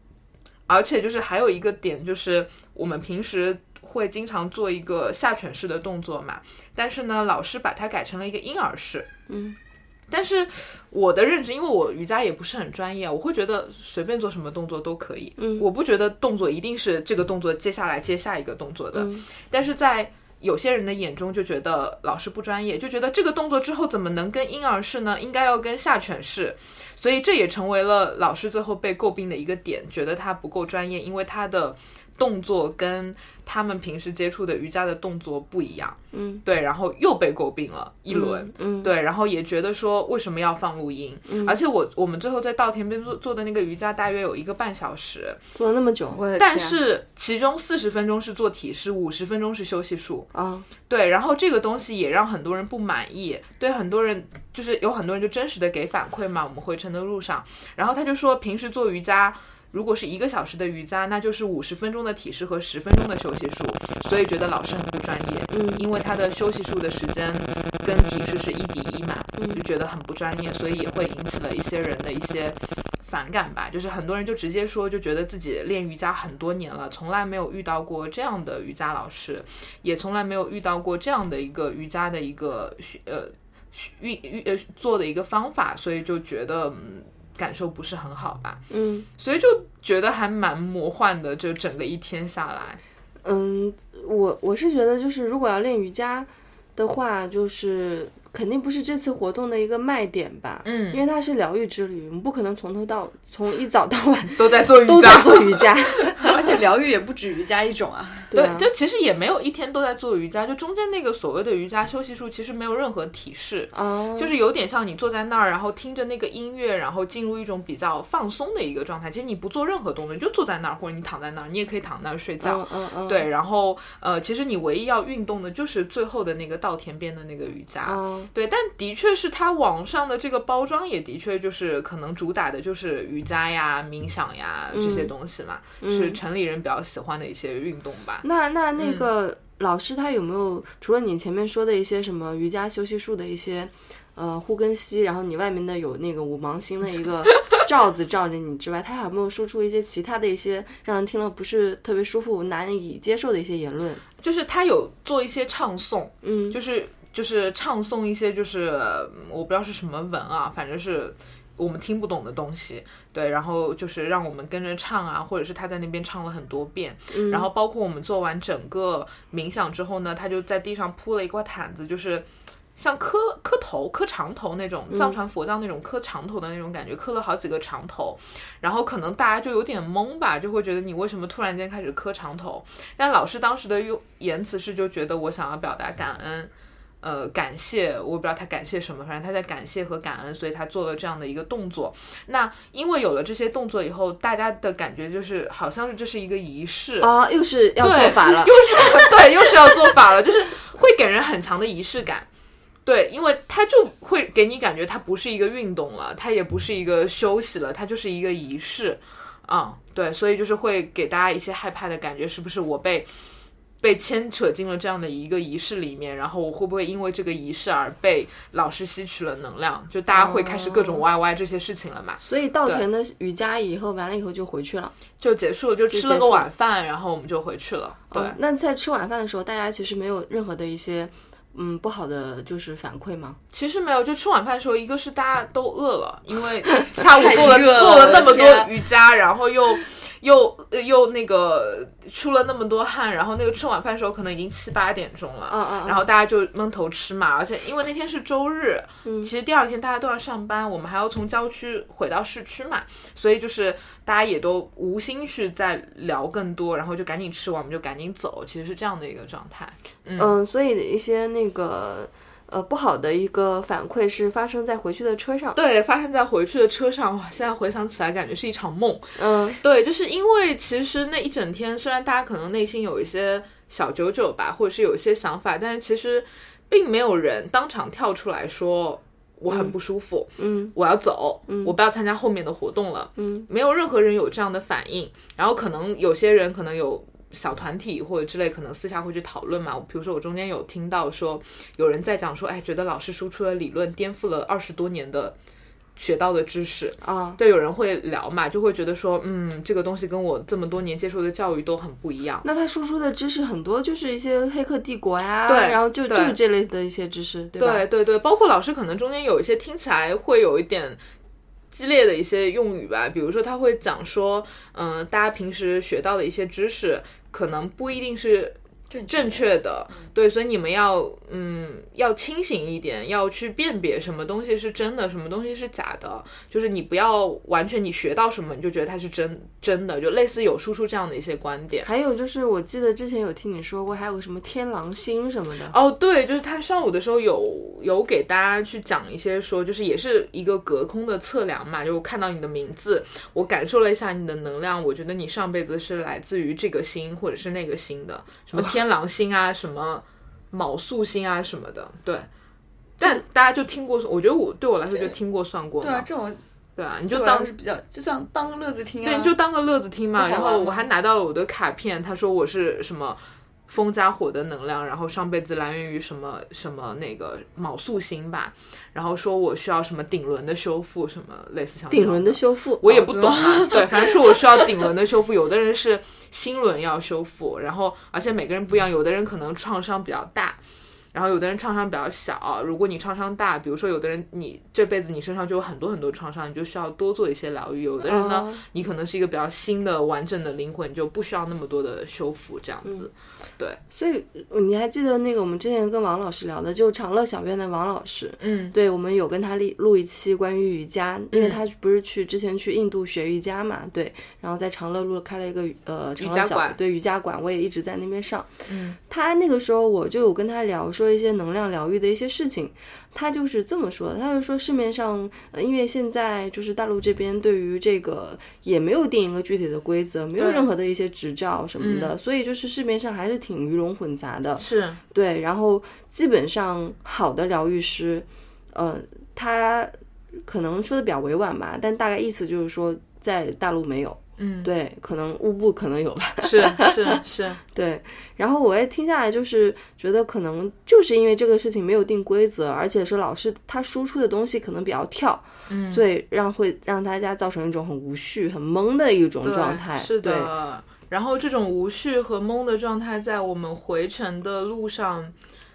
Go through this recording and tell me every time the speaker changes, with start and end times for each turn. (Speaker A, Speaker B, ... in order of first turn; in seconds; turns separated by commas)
Speaker A: 0.7-9.1, Speaker B: 9.3-9.6, Speaker A: 10.1-45.4, Speaker B: 15.4-15.6, Speaker B: 18.9-19.2, Speaker B: 36.1-36.4, Speaker B: 38.1-38.9, Speaker B: 41.3-41.5, Speaker B: 45.5-46.2, Speaker C: 46.1-46.8, Speaker A: 46.4-50.3, Speaker B: 50.3-50.7, Speaker A: 50.9-88.6, Speaker B: 65.5-65.8, Speaker B: 69.4-69.6, Speaker B: 88.7-89.1, Speaker A: 89.2-92.8, Speaker B: 93.2-106.3, Speaker A: 100.6-101.0, Speaker A: 104.4-106.3, Speaker C: 106.2-108.3, Speaker B: 108.3-108.7, Speaker A: 108.3-138.2, Speaker B: 113.7-114.3, Speaker B: 122.4-123.3, Speaker B: 127.8-128.3, Speaker B: 134.7-135.1, Speaker B: 135.8-136.2, Speaker B: 138.2-154.0, Speaker A: 138.8-139.1, Speaker A: 154.2-172.3, Speaker B: 156.2-156.6, Speaker B: 167.1-167.5, Speaker A: 172.8-197.1, Speaker B: 197.0-199.9, Speaker A: 197.8-202.3, Speaker A: 202.8-213.1, Speaker A: 213.8-222.8, Speaker B: 220.1-221.0, Speaker B: 222.2-224.9, Speaker A: 225.2-228.4, Speaker B: 225.9-226.5, Speaker B: 228.1-233.4, Speaker A: 233.5-260.4, Speaker C: 237.1-238.7, Speaker B: 245.5-246.0, Speaker B: 249.1-249.3, Speaker B: 260.2-265.6, Speaker A: 265.5-295.4, Speaker B: 269.2-269.6, Speaker B: 280.4-280.7, Speaker B: 281.5-281.7, Speaker B: 283.2-283.5, Speaker A: 296.0-302.4, Speaker B: 297.0-297.4, Speaker B: 302.4-307.8, Speaker A: 305.5-306.4, Speaker A: 307.6-311.0, Speaker A: 311.7-318.6, Speaker C: 318.9-319.5, Speaker A: 319.1-331.9, Speaker B: 331.8-335.8, Speaker A: 335.7-352.3, Speaker A: 353.0-356.1, Speaker C: 355.8-356.4, Speaker A: 356.8-357.5, Speaker C: 357.1-359.4, Speaker A: 359.0-380.6, Speaker C: 360.2-360.9, Speaker B: 371.9-373.8, Speaker C: 373.1-374.6, Speaker A: 381.1-393.8, Speaker B: 388.1-388.6, Speaker B: 393.9-408.5, Speaker A: 398.4-398.8, Speaker A: 401.3-401.6, Speaker A: 406.2-406.8, Speaker A: 408.7-409.0, Speaker B: 409.1-437.2, Speaker A: 420.4-420.7, Speaker A: 421.8-422.1, Speaker A: 424.6-425.0, Speaker A: 434.4-434.7, Speaker A: 436.4-437.6, Speaker B: 437.7-450.5, Speaker A: 445.7-446.0, Speaker A: 449.4-455.3